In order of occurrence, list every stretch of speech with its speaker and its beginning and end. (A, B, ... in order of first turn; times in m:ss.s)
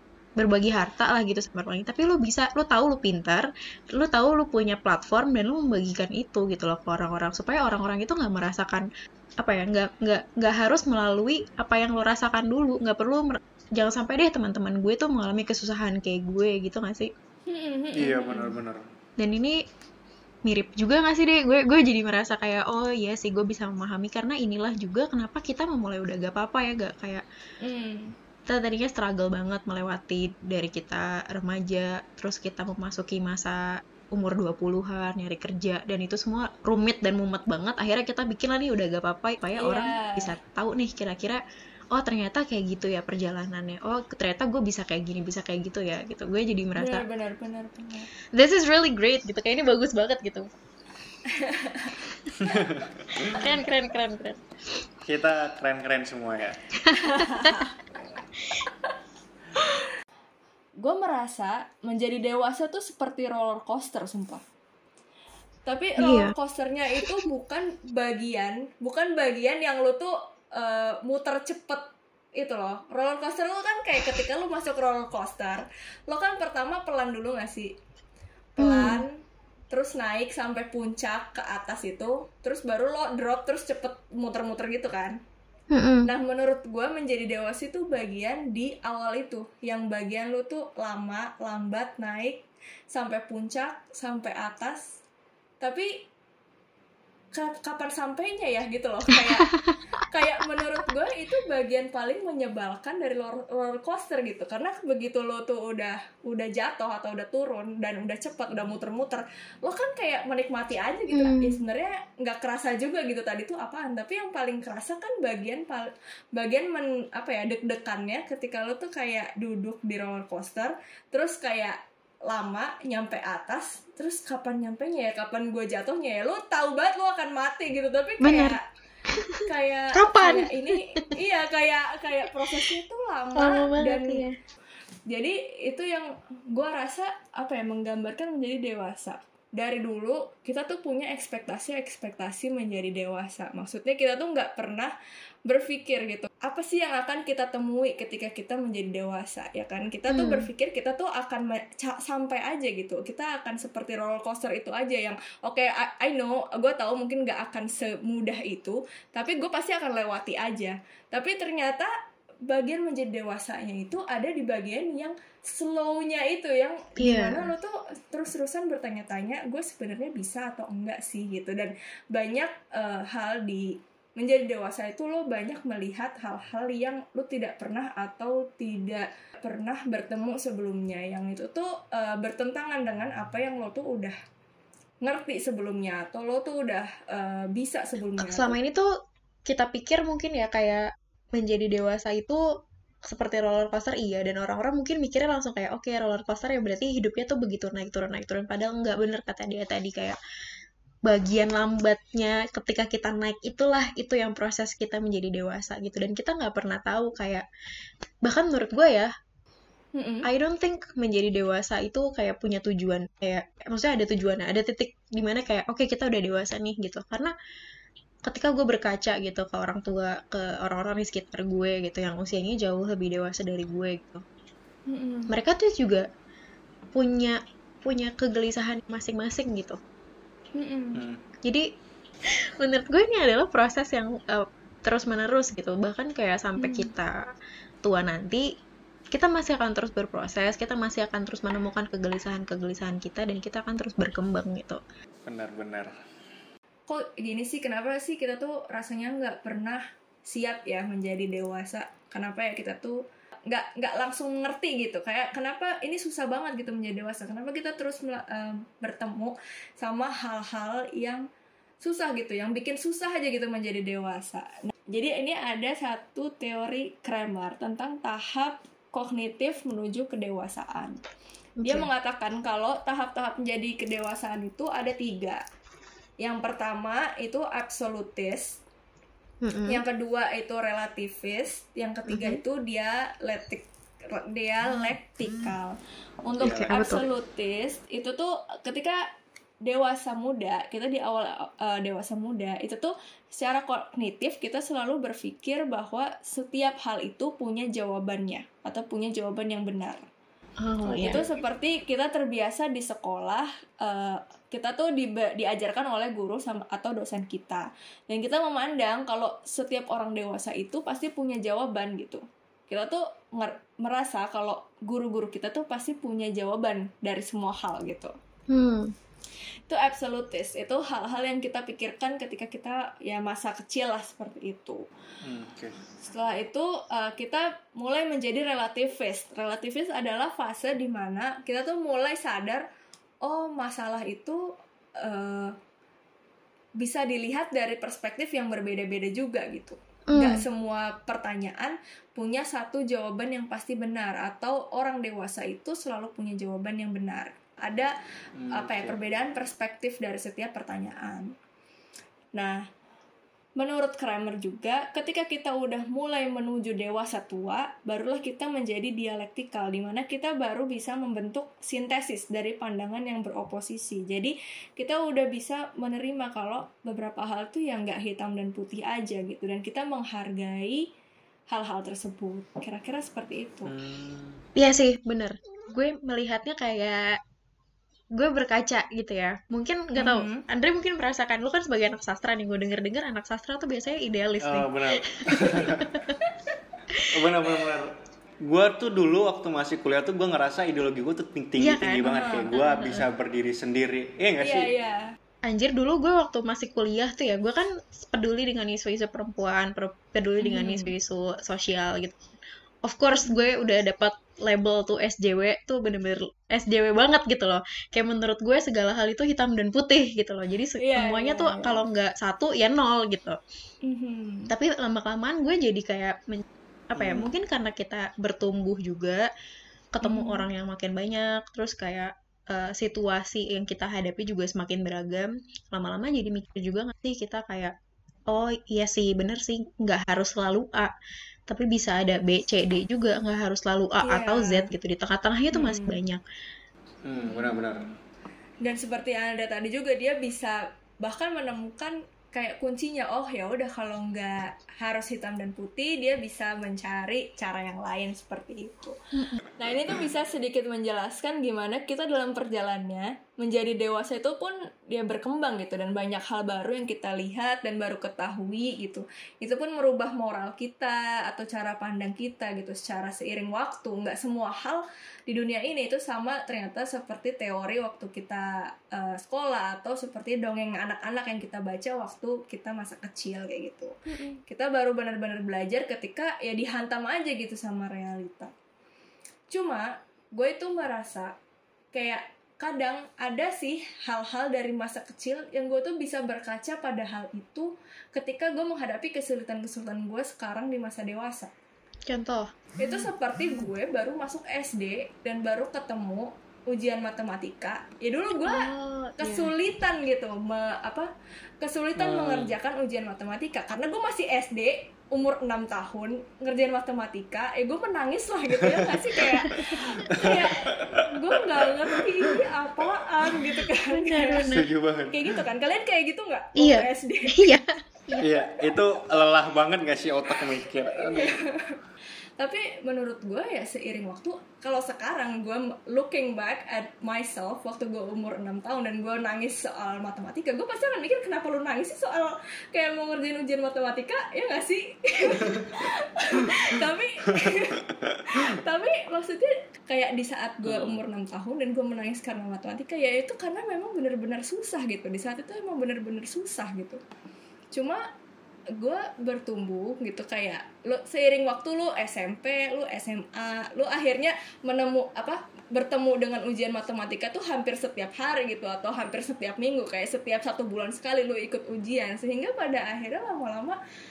0:00.4-0:08.9 A
0:09.4-0:17.1 A
0:17.5-0:18.5 B
0:17.9-0:18.8 C
0:19.2-0:19.6 A
0:20.4-0:27.2 A
0:27.6-0:28.1 B
0:28.5-0:47.0 A
0:39.6-0:40.3 B
0:46.8-0:48.1 B
0:48.3-0:50.5 A
0:51.3-0:52.0 B
0:52.8-0:53.2 C
0:53.1-0:54.4 A
0:55.0-0:56.6 C
0:56.8-0:57.6 A
0:57.1-0:57.7 B
1:00.8-1:04.4 B
1:05.6-1:17.7 B
1:06.0-1:06.3 A
1:18.6-1:19.0 A
1:18.6-1:19.2 B
1:19.7-1:25.2 B
1:25.7-1:26.1 A
1:26.0-1:35.0 B
1:35.6-1:35.9 B
1:37.3-1:39.5 B
1:40.1-2:08.6 B
1:51.1-1:51.6 A
2:08.2-2:08.6 A
2:09.1-2:09.4 A
2:09.4-2:14.2 B
2:09.9-2:11.1 A
2:13.4-2:14.3 A
2:15.1-2:24.9 B
2:25.4-2:41.9 B
2:30.1-2:30.5 A
2:42.5-3:04.2 B
2:47.0-2:47.5 A
3:05.0-3:08.6 B
3:08.2-3:08.9 A
3:09.4-3:12.4 A
3:13.0-3:20.2 A
3:21.0-3:27.4 A
3:28.2-3:29.1 A
3:29.9-3:30.3 B
3:30.2-3:37.3 A
3:38.2-3:44.2 A
3:44.9-3:45.3 B
3:45.3-3:46.1 A
3:46.9-3:49.8 A
3:50.5-3:51.0 B
3:50.9-3:51.2 C
3:52.6-3:57.3 A
3:56.6-3:56.9 B
3:57.8-3:58.5 A
3:59.1-4:04.8 A
4:05.2-4:05.9 C
4:06.9-4:21.3 B
4:21.8-4:31.0 B
4:31.6-4:31.9 A
4:31.6-4:35.4 B
4:36.2-4:38.6 B
4:39.4-4:39.8 A
4:39.7-4:49.0 B
4:42.1-4:42.4 A
4:46.4-4:46.7 C
4:46.5-4:47.0 A
4:49.6-5:00.1 B
5:00.6-5:01.2 A
5:00.9-5:01.3 C
5:00.9-5:18.1 B
5:18.5-5:18.9 A
5:19.7-5:24.9 B
5:25.2-5:25.8 C
5:26.0-5:32.6 B
5:33.2-5:35.5 B
5:36.8-5:47.9 B
5:40.1-5:40.4 A
5:48.4-5:49.0 C
5:48.5-5:51.3 B
5:52.3-5:52.6 B
5:53.6-6:10.9 B
6:11.5-6:13.7 B
6:13.6-6:14.4 C
6:14.6-6:17.2 A
6:18.1-6:26.2 A
6:20.0-6:20.4 B
6:24.4-6:26.0 C
6:27.1-6:27.9 C
6:28.4-6:34.7 C
6:31.6-6:33.0 A
6:32.0-6:33.0 B
6:34.4-6:35.0 B
6:35.4-6:42.2 A
6:40.4-6:40.9 B
6:42.8-6:53.4 A
6:50.8-6:51.8 B
6:53.8-6:54.5 B
6:54.5-6:59.3 A
6:57.0-6:57.3 C
6:59.9-7:07.7 A
7:00.0-7:00.4 B
7:08.3-7:10.9 A
7:11.5-7:16.2 A
7:14.0-7:14.7 B
7:15.5-7:16.0 B
7:17.0-7:17.8 C
7:17.2-7:17.9 B
7:18.6-7:29.0 B
7:29.1-7:29.4 A
7:29.6-7:58.5 B
7:54.1-7:54.4 A
7:59.5-8:01.3 B
8:01.9-8:11.5 B
8:12.1-8:12.5 A
8:12.8-8:21.1 B
8:18.4-8:19.5 A
8:21.6-8:34.5 B
8:22.0-8:22.6 C
8:30.1-8:31.0 C
8:31.8-8:32.1 C
8:33.9-8:34.6 A
8:34.5-8:35.4 C
8:35.1-8:37.5 B
8:36.6-8:38.3 A
8:38.2-8:41.4 C
8:40.9-8:41.8 B
8:42.4-9:07.0 B
9:00.6-9:01.0 C
9:07.7-9:08.0 B
9:08.8-9:23.8 B